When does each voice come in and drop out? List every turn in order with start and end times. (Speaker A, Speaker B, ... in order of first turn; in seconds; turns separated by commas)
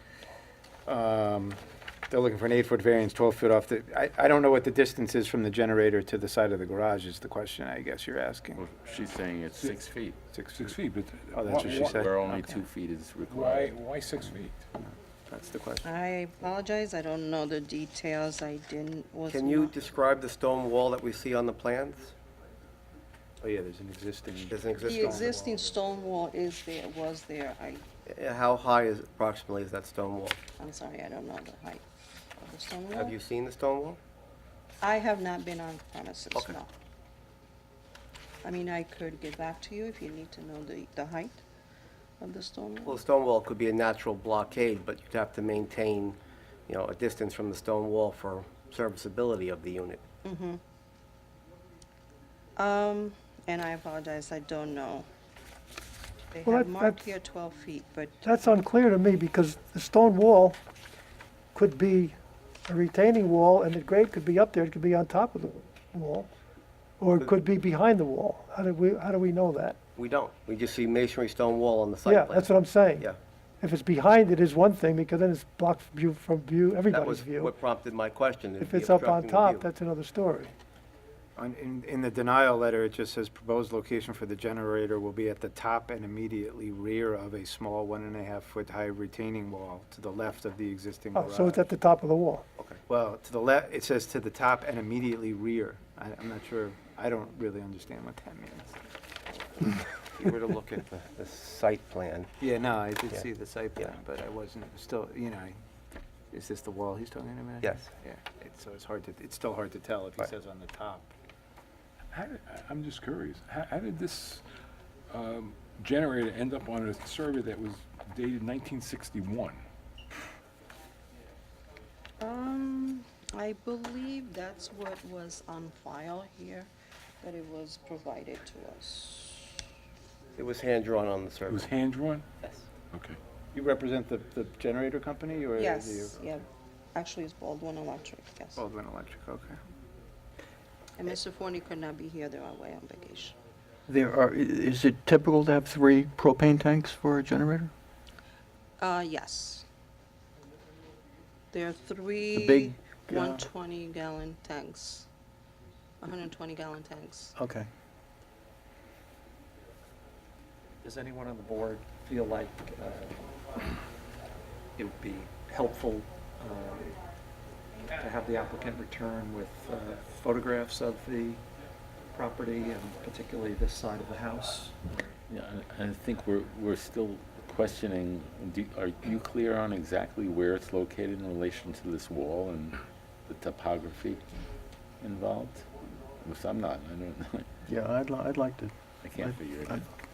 Speaker A: 0.8-8.7, Speaker B: 8.6-10.2, Speaker C: 9.5-9.9, Speaker A: 10.3-10.7, Speaker C: 10.5-12.6, Speaker A: 11.3-12.1, Speaker B: 11.5-13.8, Speaker C: 13.3-14.7, Speaker A: 15.3-15.8, Speaker D: 15.8-19.8, Speaker E: 19.3-22.1, Speaker A: 23.4-25.7, Speaker E: 24.5-25.4, Speaker D: 24.9-27.8, Speaker E: 28.1-30.4, Speaker D: 30.6-31.8, Speaker D: 32.4-33.1, Speaker E: 32.9-34.0, Speaker D: 34.8-36.7, Speaker E: 36.3-36.6, Speaker D: 38.4-41.4, Speaker D: 42.2-43.0, Speaker E: 42.8-46.2, Speaker E: 46.7-50.0, Speaker D: 50.2-50.6, Speaker D: 52.6-55.1, Speaker D: 56.3-58.2, Speaker F: 56.5-57.1, Speaker F: 58.2-60.6, Speaker F: 61.5-66.3, Speaker F: 67.0-69.8, Speaker E: 70.0-73.2, Speaker F: 72.0-73.1, Speaker F: 73.6-77.5, Speaker E: 76.9-79.7, Speaker F: 78.6-80.5, Speaker A: 81.3-91.7, Speaker F: 91.1-92.5, Speaker A: 92.9-98.8, Speaker E: 99.6-102.3, Speaker A: 102.4-105.6, Speaker A: 106.3-111.1, Speaker E: 107.6-107.9, Speaker C: 112.1-114.4, Speaker C: 115.1-119.6, Speaker D: 122.2-126.7, Speaker D: 127.2-129.6, Speaker E: 130.3-131.7, Speaker C: 131.5-132.2, Speaker C: 132.9-133.2, Speaker A: 133.5-136.2, Speaker D: 135.5-138.6, Speaker A: 138.6-139.6, Speaker D: 141.0-143.3, Speaker G: 143.9-147.7, Speaker D: 148.8-149.7, Speaker D: 151.5-155.1, Speaker G: 152.4-153.2, Speaker D: 156.0-157.3, Speaker H: 160.8-163.3, Speaker H: 164.8-166.9, Speaker H: 167.9-171.4, Speaker H: 172.1-175.1, Speaker B: 175.3-184.2, Speaker B: 185.0-185.7, Speaker B: 186.2-187.5, Speaker G: 187.7-189.8, Speaker B: 189.0-189.8